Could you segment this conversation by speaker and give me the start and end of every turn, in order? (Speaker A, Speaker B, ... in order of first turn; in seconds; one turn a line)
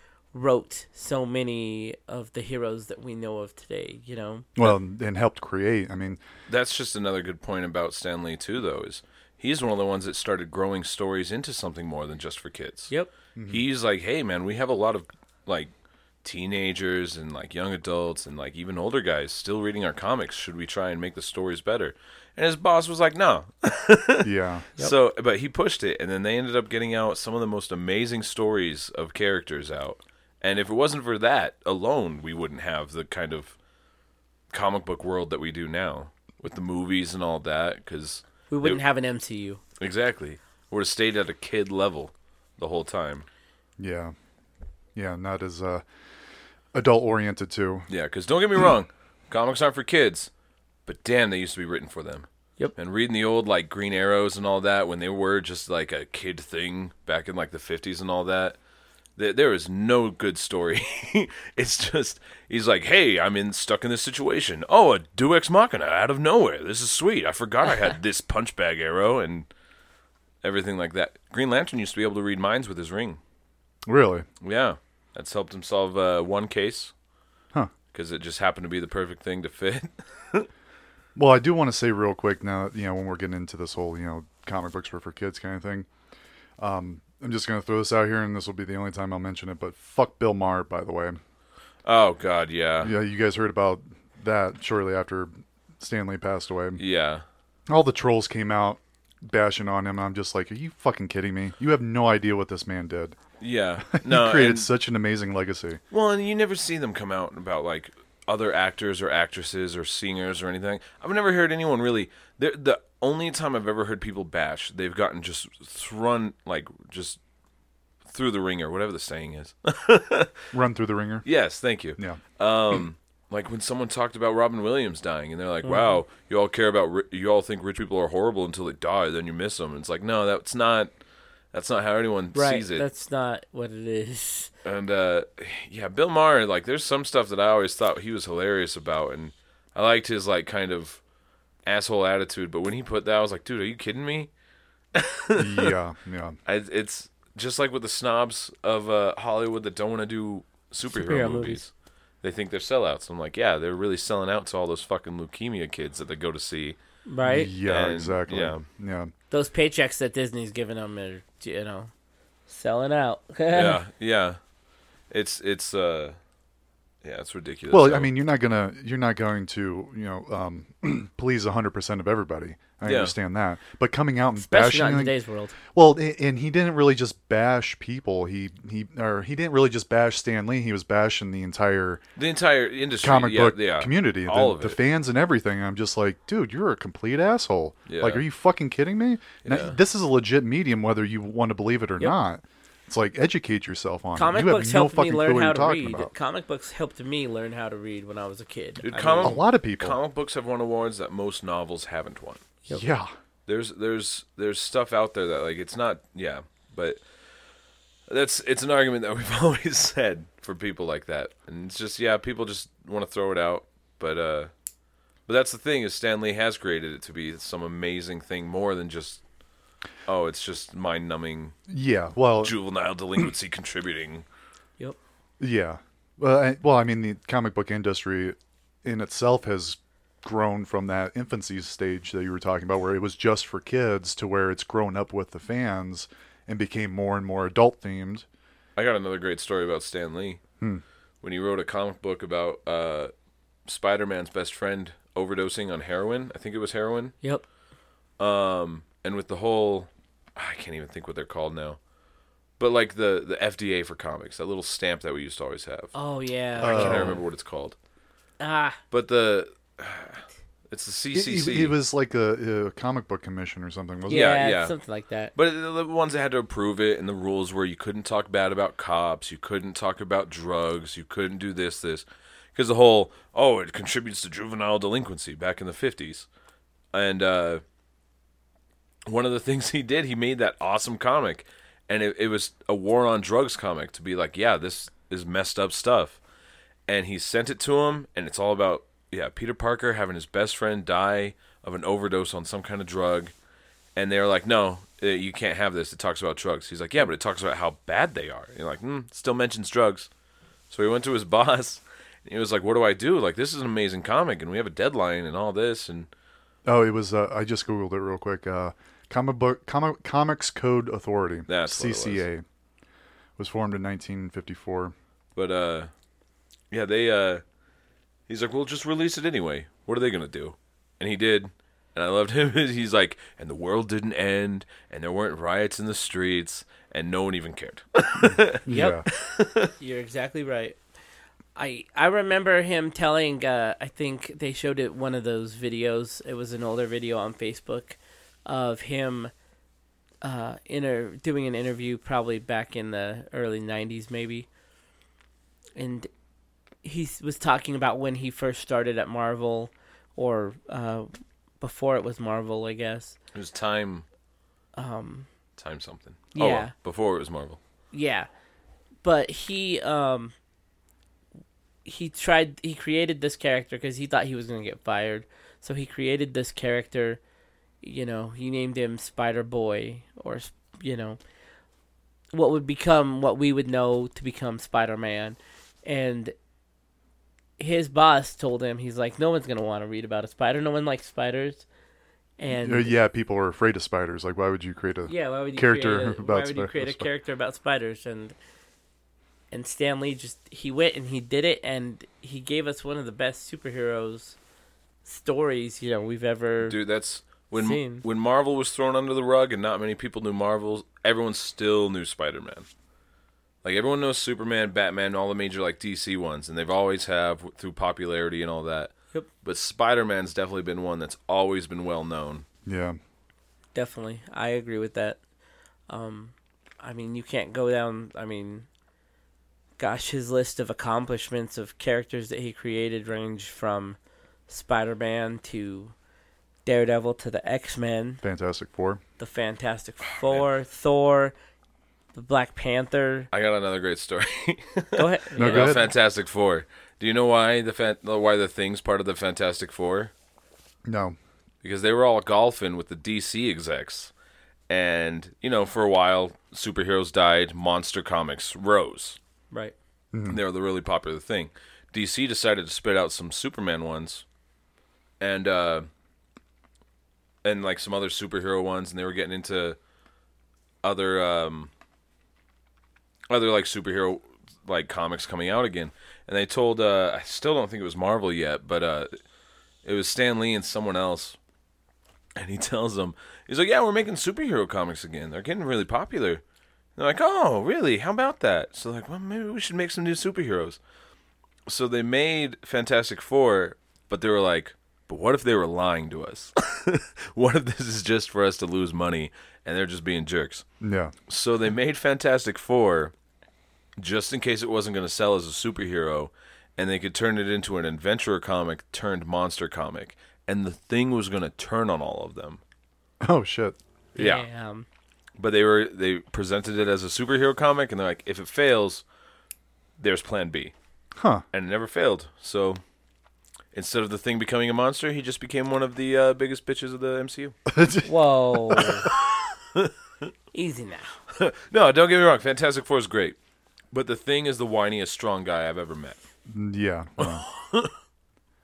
Speaker A: 0.3-4.5
Speaker B: 4.6-6.2
Speaker C: 6.5-12.9
Speaker B: 13.4-13.6
Speaker C: 13.5-15.7
Speaker C: 16.2-33.6
Speaker B: 24.2-24.7
Speaker C: 34.5-38.8
Speaker A: 38.5-39.6
Speaker C: 39.8-43.3
Speaker B: 43.8-44.1
Speaker B: 45.0-45.9
Speaker B: 46.7-47.9
Speaker C: 47.9-50.3
Speaker C: 50.9-58.6
Speaker C: 59.2-69.5
Speaker C: 70.4-73.2
Speaker B: 73.9-74.3
Speaker C: 74.4-76.9
Speaker C: 77.9-80.5
Speaker B: 81.2-85.9
Speaker B: 86.6-91.2
Speaker C: 91.8-92.9
Speaker B: 92.8-96.8
Speaker C: 96.8-97.2
Speaker B: 97.7-103.2
Speaker C: 103.4-104.7
Speaker B: 103.9-105.8
Speaker C: 105.9-117.2
Speaker C: 118.1-120.3
Speaker B: 120.5-121.3
Speaker C: 121.3-130.9
Speaker A: 125.7-126.0
Speaker C: 131.5-132.8
Speaker A: 132.3-134.5
Speaker C: 134.6-141.0
Speaker C: 141.7-144.3
Speaker C: 144.9-145.7
Speaker B: 145.3-146.4
Speaker C: 146.5-151.7
Speaker A: 150.9-151.6
Speaker C: 152.2-156.8
Speaker A: 157.1-157.5
Speaker B: 157.2-159.1
Speaker C: 157.6-158.6
Speaker A: 159.3-161.9
Speaker A: 162.5-163.8
Speaker C: 163.5-164.4
Speaker C: 165.1-166.2
Speaker C: 167.0-168.1
Speaker B: 167.7-175.1
Speaker C: 172.8-173.1
Speaker A: 174.4-175.6
Speaker B: 175.7-182.0
Speaker C: 182.2-184.8
Speaker B: 183.0-196.1
Speaker C: 187.9-188.2
Speaker C: 189.4-189.8
Speaker A: 194.2-199.4
Speaker C: 198.8-202.4
Speaker B: 199.2-200.0
Speaker B: 202.7-203.1
Speaker C: 203.5-207.0
Speaker C: 208.1-214.5
Speaker C: 215.3-219.2
Speaker C: 220.1-221.6
Speaker B: 221.7-222.6
Speaker C: 222.4-224.2
Speaker B: 225.4-238.3
Speaker C: 238.8-240.4
Speaker C: 241.2-243.1
Speaker C: 243.7-247.2
Speaker C: 248.2-251.8
Speaker C: 252.6-255.9
Speaker A: 255.9-257.2
Speaker C: 256.6-257.8
Speaker B: 256.6-257.2
Speaker A: 258.4-258.8
Speaker C: 258.9-261.8
Speaker B: 261.1-264.3
Speaker A: 264.1-265.3
Speaker C: 264.1-264.8
Speaker C: 265.4-276.3
Speaker C: 276.9-277.6
Speaker C: 279.1-286.2
Speaker C: 286.9-293.3
Speaker C: 294.0-300.1
Speaker C: 300.7-306.1
Speaker B: 306.7-312.4
Speaker C: 311.5-312.2
Speaker B: 313.4-314.9
Speaker C: 315.4-315.9
Speaker C: 316.7-317.4
Speaker C: 318.3-329.7
Speaker B: 328.2-329.1
Speaker A: 328.7-329.0
Speaker A: 329.8-330.8
Speaker A: 331.6-339.3
Speaker A: 340.2-344.5
Speaker A: 345.8-346.1
Speaker A: 346.8-351.1
Speaker A: 351.6-353.2
Speaker C: 353.3-354.1
Speaker A: 354.8-355.3
Speaker C: 355.6-357.6
Speaker A: 356.3-356.7
Speaker A: 357.9-358.3
Speaker A: 359.0-360.4
Speaker A: 361.9-367.2
Speaker A: 367.8-371.2
Speaker A: 372.3-376.3
Speaker A: 377.6-381.7
Speaker A: 382.4-382.9
Speaker B: 382.5-387.1
Speaker A: 385.1-388.4
Speaker A: 389.5-394.4
Speaker A: 395.1-396.8
Speaker C: 396.6-402.7
Speaker A: 397.5-398.0
Speaker C: 403.6-412.4
Speaker B: 412.7-413.0
Speaker A: 413.7-415.2
Speaker A: 415.9-418.7
Speaker A: 419.8-424.0
Speaker A: 424.5-425.9
Speaker A: 426.6-428.2
Speaker B: 428.2-429.0
Speaker A: 429.2-431.4
Speaker C: 430.1-430.5
Speaker A: 432.1-433.3
Speaker C: 433.3-440.1
Speaker A: 435.0-435.9
Speaker B: 435.4-435.9
Speaker B: 440.9-441.2
Speaker C: 441.6-444.1
Speaker C: 444.7-449.2
Speaker B: 450.1-450.4
Speaker C: 450.3-454.2
Speaker C: 455.2-455.9
Speaker C: 457.4-459.8
Speaker C: 460.8-461.7
Speaker C: 463.3-469.1
Speaker C: 469.8-471.4
Speaker C: 472.4-476.4
Speaker C: 477.0-480.8
Speaker C: 481.7-490.6
Speaker B: 490.8-491.1
Speaker C: 491.3-493.1
Speaker C: 494.0-502.6
Speaker B: 503.2-503.8
Speaker C: 504.2-504.4
Speaker A: 504.2-504.9
Speaker C: 505.4-509.0
Speaker C: 510.0-510.7
Speaker B: 511.2-511.4
Speaker C: 511.5-512.8
Speaker C: 513.7-517.6
Speaker B: 517.7-519.0
Speaker A: 518.1-519.1
Speaker C: 518.9-519.9
Speaker A: 520.5-521.1
Speaker C: 521.3-523.4
Speaker C: 523.9-526.2
Speaker B: 526.5-527.5
Speaker C: 527.2-527.9